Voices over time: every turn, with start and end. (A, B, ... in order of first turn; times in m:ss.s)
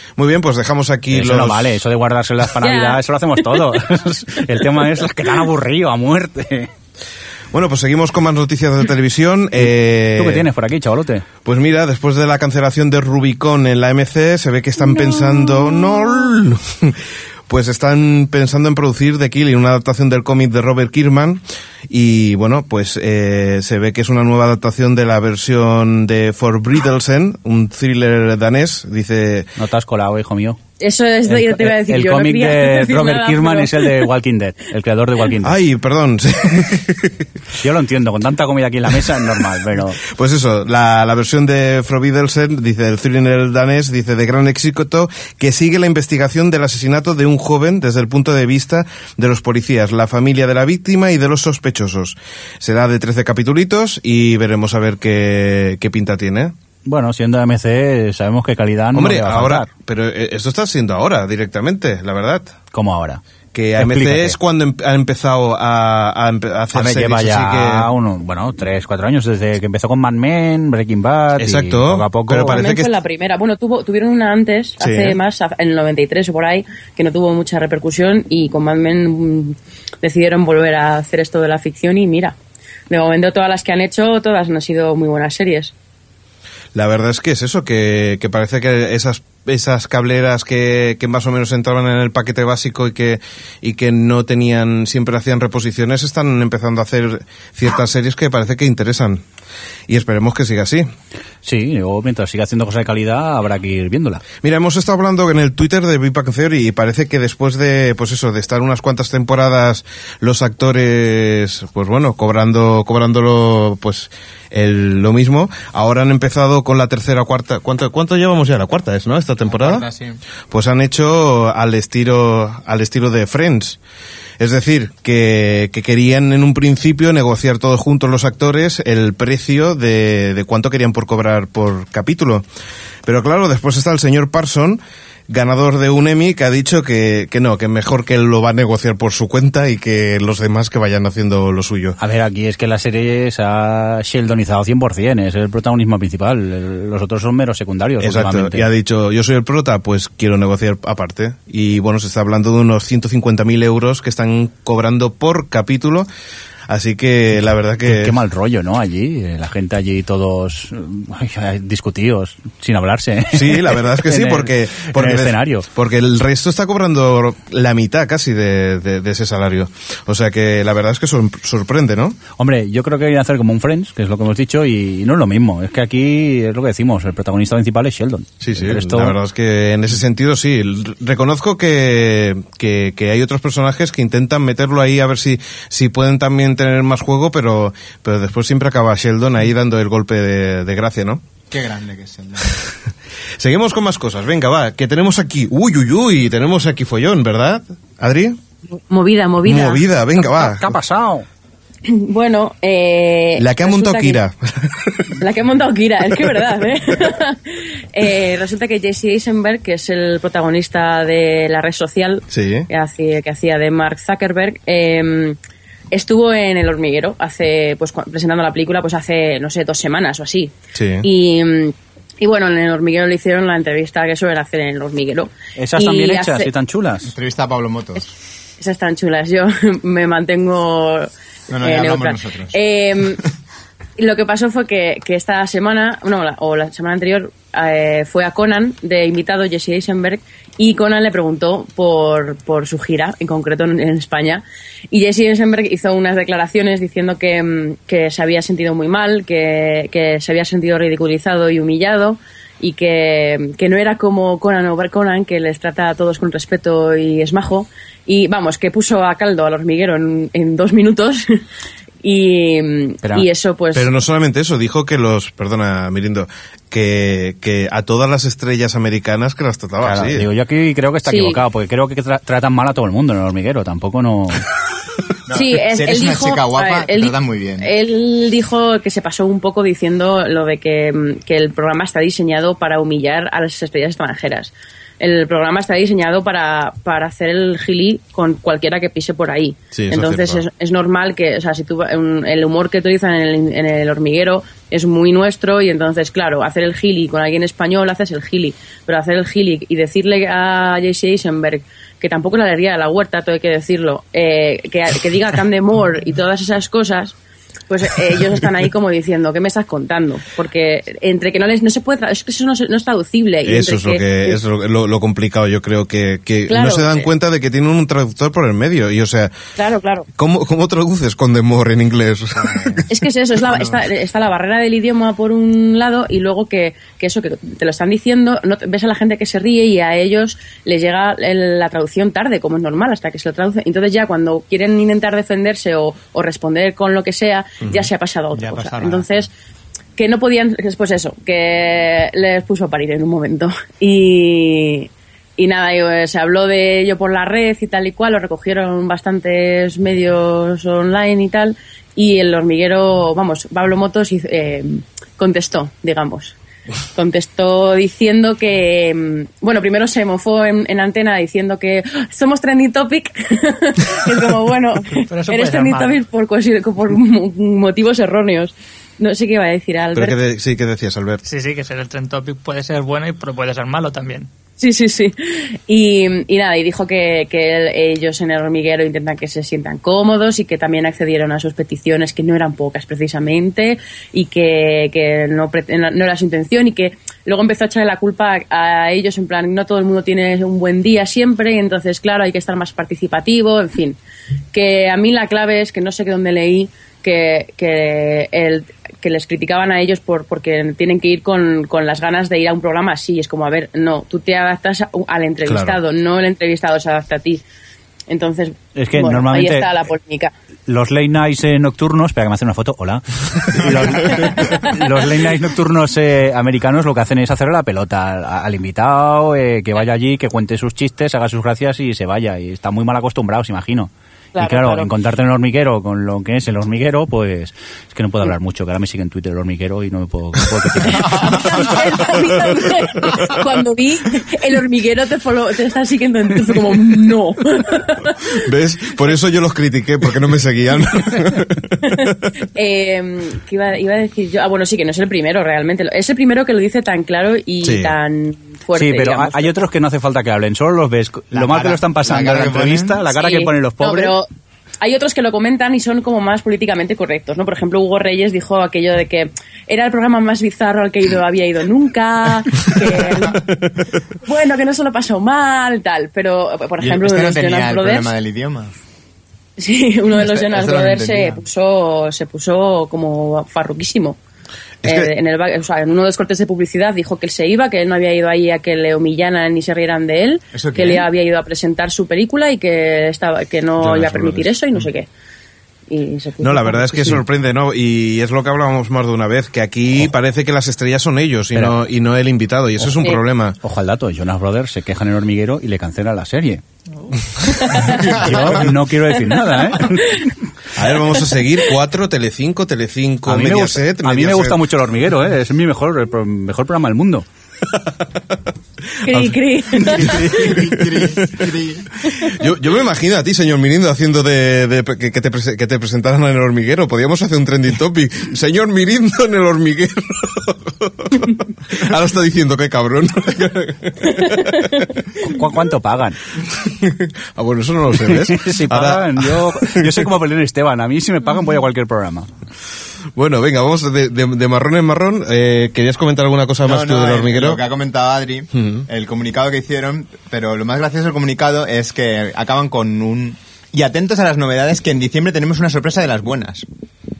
0:00.2-0:01.8 A
0:01.1-0:06.7 B
0:02.6-0:03.4 C
0:07.5-0:10.5 A
0:09.7-0:11.2 B
0:11.4-0:29.5 A
0:29.6-0:30.6 B
0:30.8-0:34.1 C
0:31.3-0:35.6 B
0:35.4-0:37.3 A
0:37.6-0:40.0 B
0:40.0-0:56.5 A
0:56.8-0:59.7 B
0:58.9-1:02.5 A
1:02.7-1:03.2 B
1:03.5-1:07.9 A
1:03.8-1:04.4 B
1:06.7-1:12.6 B
1:11.4-1:12.9 A
1:12.4-1:22.3 C
1:14.8-1:15.2 A
1:22.9-1:25.7 C
1:26.7-1:39.2 A
1:39.9-1:40.9 A
1:41.4-1:44.2 B
1:44.4-1:59.9 A
1:59.4-2:00.2 D
2:00.5-2:03.8 A
2:04.4-2:12.4 A
2:13.0-2:22.0 A
2:22.0-2:28.7 B
2:28.0-2:36.1 A
2:36.7-2:38.2 A
2:37.9-2:45.6 B
2:43.3-2:52.2 A
2:52.4-2:59.2 B
2:58.4-3:11.2 A
3:11.5-3:12.6 D
3:13.4-3:18.4 A
3:18.7-3:19.8 C
3:19.4-3:20.7 A
3:20.2-3:21.2 B
3:21.8-3:24.2 C
3:23.4-3:25.1 A
3:25.2-3:35.4 C
3:32.3-3:32.7 A
3:35.9-3:46.5 C
3:40.7-3:41.0 A
3:45.6-3:47.1 B
3:47.1-3:48.1 D
3:48.6-3:51.1 C
3:51.5-3:52.6 D
3:51.6-3:53.2 C
3:54.0-4:21.2 C
4:22.0-4:23.9 C
4:23.7-4:30.2 A
4:29.8-4:34.4 B
4:31.0-4:31.4 C
4:35.2-4:37.7 D
4:35.3-5:07.1 C
4:49.7-4:50.4 A
5:07.7-5:14.4 C
5:13.4-5:19.3 A
5:16.5-5:17.0 C
5:19.6-5:20.1 C
5:20.2-5:22.8 A
5:22.4-5:22.8 D
5:22.9-5:39.3 C
5:23.5-5:23.8 D
5:38.3-5:39.1 D
5:40.0-5:56.3 C
5:56.9-6:10.2 C
6:05.1-6:06.0 E
6:09.9-6:11.2 A
6:11.2-6:14.3 E
6:14.6-6:34.0 C
6:34.5-6:47.4 C
6:45.4-6:45.8 A
6:48.1-6:50.3 C
6:48.7-6:49.7 B
6:50.7-7:11.3 B
6:54.1-6:54.7 C
7:04.3-7:04.9 C
7:10.9-7:18.4 C
7:18.4-7:22.2 A
7:21.8-7:29.5 C
7:27.6-7:27.9 A
7:28.7-7:34.1 B
7:31.3-7:33.0 D
7:33.1-7:34.2 C
7:34.8-7:43.5 C
7:44.2-7:48.1 C
7:46.8-7:48.7 D
7:49.6-7:54.2 C
7:50.1-7:51.4 D
7:54.8-7:55.1 A
7:54.8-8:05.1 C
8:00.5-8:01.1 D
8:03.8-8:04.2 A
8:04.0-8:04.4 B
8:05.9-8:07.2 C
8:06.4-8:13.6 A
8:13.6-8:16.6 B
8:16.9-8:17.2 E
8:17.5-8:18.3 C
8:17.8-8:20.3 B
8:19.2-8:20.3 C
8:20.7-8:24.6 A
8:23.3-8:27.2 B
8:27.7-8:28.0 A
8:29.0-8:30.6 C
8:29.0-8:31.5 A
8:29.9-8:32.0 D
8:32.0-8:32.4 C
8:32.3-8:45.0 A
8:45.2-8:46.2 B
8:46.4-8:50.1 A
8:48.0-8:52.3 B
8:53.1-8:57.6 A
8:56.6-9:06.6 D
8:58.5-8:58.9 A